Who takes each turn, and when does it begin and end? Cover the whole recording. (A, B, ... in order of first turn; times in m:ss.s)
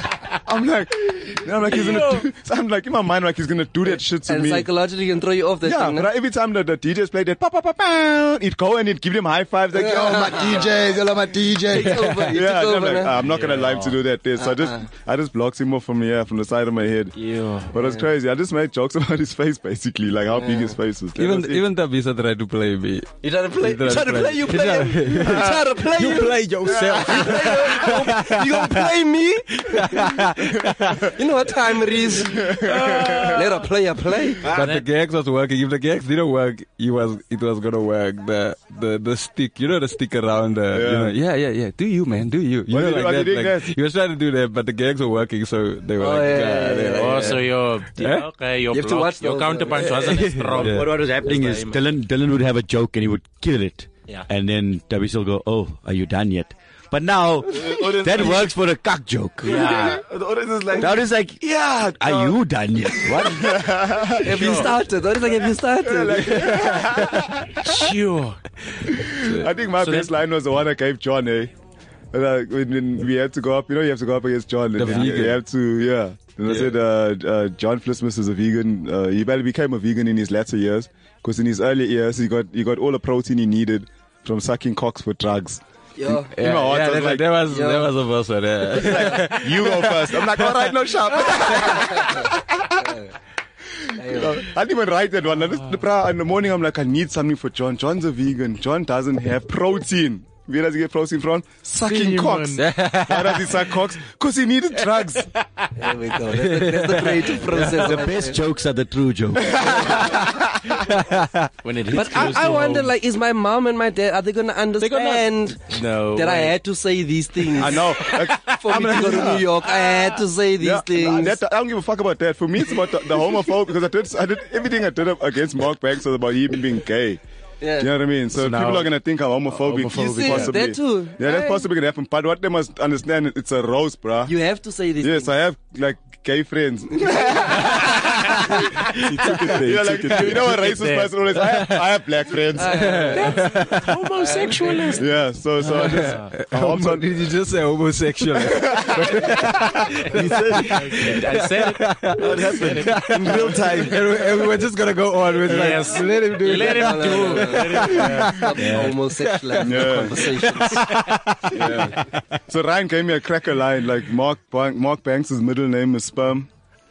0:00.4-0:04.7 A
0:01.7-0:02.2 B
0:04.2-0:06.1 C
0:05.6-0:17.1 A
0:09.7-0:10.7 C
0:11.7-0:13.1 C
0:11.9-0:12.3 D
0:13.1-0:14.0 B
0:14.4-0:14.8 C
0:17.2-0:17.7 B
0:17.7-0:21.6 A
0:17.8-0:18.0 C
0:20.3-0:20.7 C
0:21.2-0:29.0 D
0:23.2-0:30.2 C
0:25.2-0:25.6 A
0:26.7-0:27.3 A
0:29.5-0:31.1 D
0:31.1-0:34.5 C
0:32.3-0:33.4 A
0:32.6-0:33.5 B
0:34.4-0:48.3 D
0:34.5-0:34.8 B
0:40.7-0:41.1 A
0:42.7-0:43.7 A
0:46.0-0:47.4 C
0:47.0-0:51.8 B
0:48.7-0:50.0 C
0:49.8-0:50.9 D
0:50.5-0:59.8 E
0:57.5-0:58.6 F
0:59.4-1:00.0 B
0:59.4-1:02.4 F
1:00.7-1:03.5 E
1:03.2-1:04.7 A
1:04.2-1:06.5 C
1:05.8-1:07.6 A
1:06.1-1:07.3 D
1:07.6-1:08.8 B
1:09.1-1:11.5 A
1:09.1-1:09.5 D
1:09.8-1:10.1 B
1:12.1-1:25.6 A
1:14.7-1:15.4 D
1:16.5-1:16.7 D
1:26.0-1:26.3 C
1:26.1-1:27.4 A
1:26.3-1:30.8 D
1:27.4-1:27.9 C
1:28.7-1:32.9 A
1:31.7-1:33.1 C
1:33.9-1:45.3 A
1:34.0-1:34.4 C
1:41.8-1:42.6 B
1:42.6-1:43.6 D
1:45.7-1:48.4 C
1:46.3-1:47.8 D
1:47.7-1:50.1 E
1:49.5-1:50.7 A
1:49.6-1:50.2 C
1:50.8-1:51.5 D
1:51.6-1:52.9 B
1:51.9-1:57.8 C
1:54.8-1:56.6 B
1:57.6-1:59.6 A
1:57.7-1:58.5 B
1:58.5-2:01.4 C
1:59.7-2:00.0 B
2:00.6-2:07.2 A
2:07.6-2:07.9 C
2:07.8-2:14.3 A
2:08.3-2:08.9 B
2:09.5-2:10.5 B
2:10.1-2:11.6 C
2:14.2-2:15.3 C
2:15.0-2:18.4 A
2:17.0-2:17.8 C
2:18.9-2:20.5 F
2:19.2-2:19.4 D
2:19.5-2:23.0 A
2:20.1-2:21.2 B
2:21.3-2:21.9 D
2:22.6-2:23.4 C
2:22.6-2:24.0 D
2:23.1-2:25.1 B
2:24.2-2:24.8 C
2:24.9-2:27.1 A
2:25.6-2:26.3 B
2:25.6-2:42.0 D
2:28.4-2:29.2 A
2:30.1-2:31.0 F
2:30.6-2:33.4 B
2:32.2-2:34.0 F
2:33.1-2:34.0 A
2:35.4-2:38.7 B
2:36.4-2:40.8 C
2:39.6-2:40.2 A
2:41.5-2:42.0 A
2:42.5-2:46.5 A